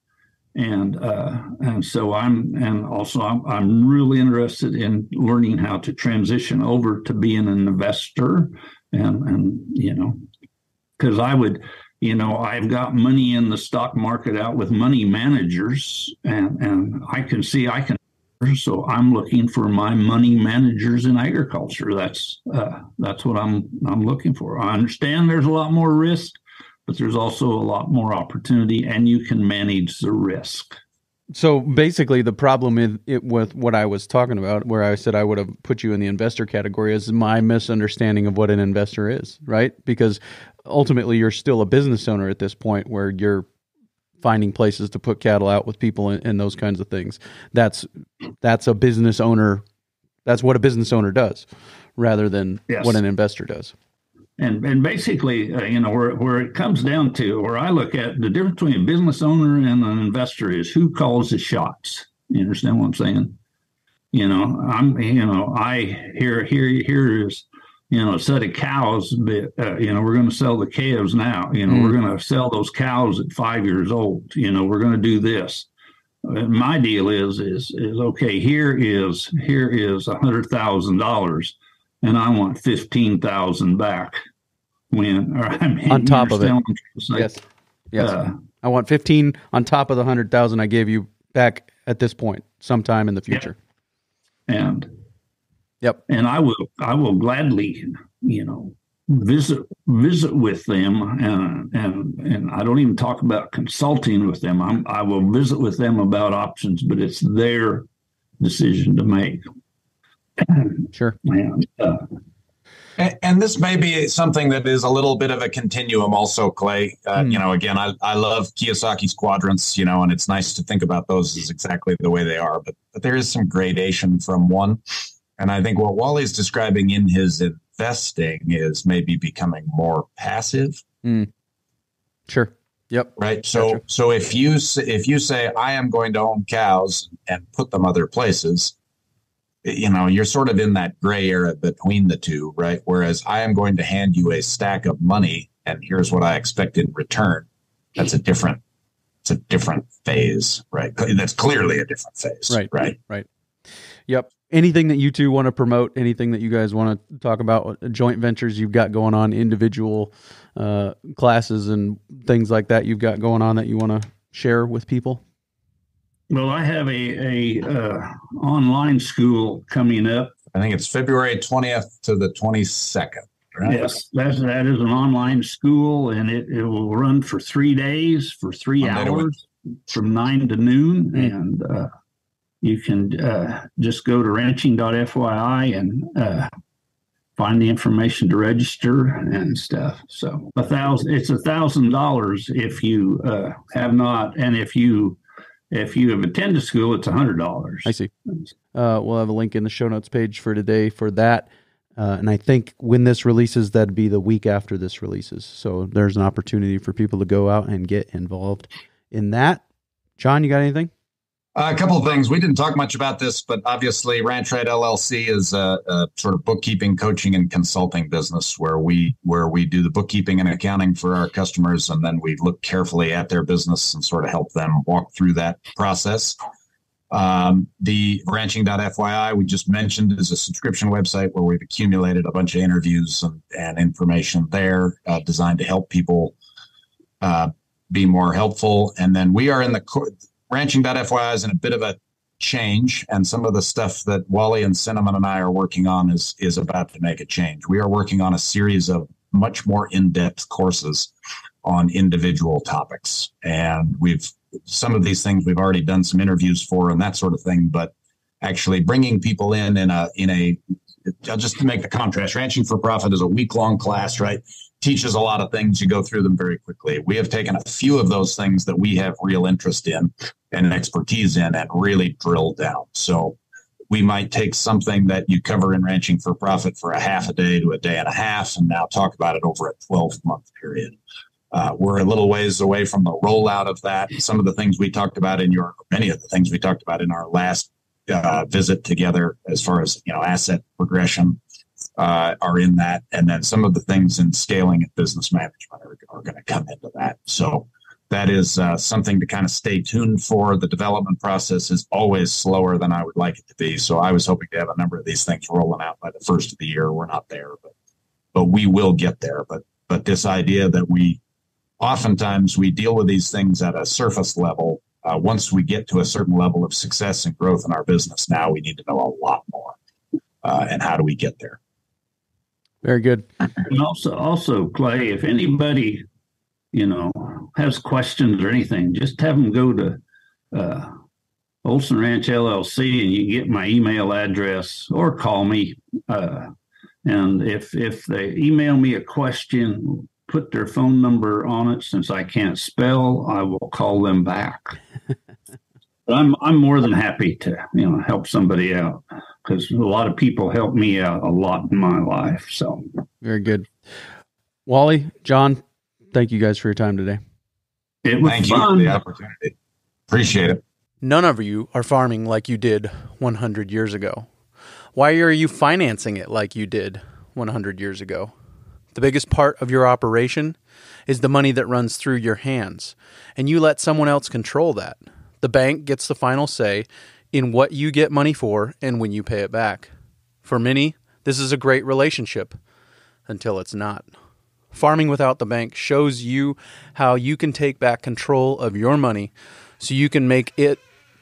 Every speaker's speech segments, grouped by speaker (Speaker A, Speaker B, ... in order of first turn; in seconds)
Speaker A: 0.6-10.2, 11.0-30.8, 52.7-53.0, 54.4-63.4, 64.1-75.7, 76.2-84.2, 84.9-87.3, 88.0-88.3, 94.5-94.9, 96.1-107.9, 108.4-109.4, 110.4-112.0, 166.3-170.3, 173.6-181.9, 182.6-186.5, 187.4-195.2, 195.7-197.9, 323.6-326.0, 326.7-330.0, 330.5-330.9, 331.6-336.5, 337.1-344.8, 346.1-353.0, 358.0-359.0
Speaker B: 31.3-43.5, 44.2-47.9, 48.4-49.6, 50.2-53.7, 71.7-72.0, 85.9-86.5, 87.1-87.4, 87.9-93.5, 131.0-131.3, 132.3-133.8, 152.5-153.3, 154.1-165.2, 197.9-198.1, 198.7-209.6, 210.2-210.9, 322.8-323.3, 353.2-353.7, 354.6-357.2, 361.0-364.3, 364.9-368.3, 368.9-370.6, 371.1-379.9, 380.4-382.6, 383.3-384.1, 384.7-390.8
Speaker C: 113.0-124.8, 125.4-130.8, 133.2-138.7, 139.6-148.6, 149.2-152.9, 170.5-173.9, 178.8-179.3, 211.6-226.4, 227.1-236.4, 237.2-251.1, 251.6-273.4, 273.9-280.9, 281.5-291.4, 292.0-307.7, 308.3-311.2, 311.8-319.8, 320.4-321.6, 358.2-359.6, 360.1-360.6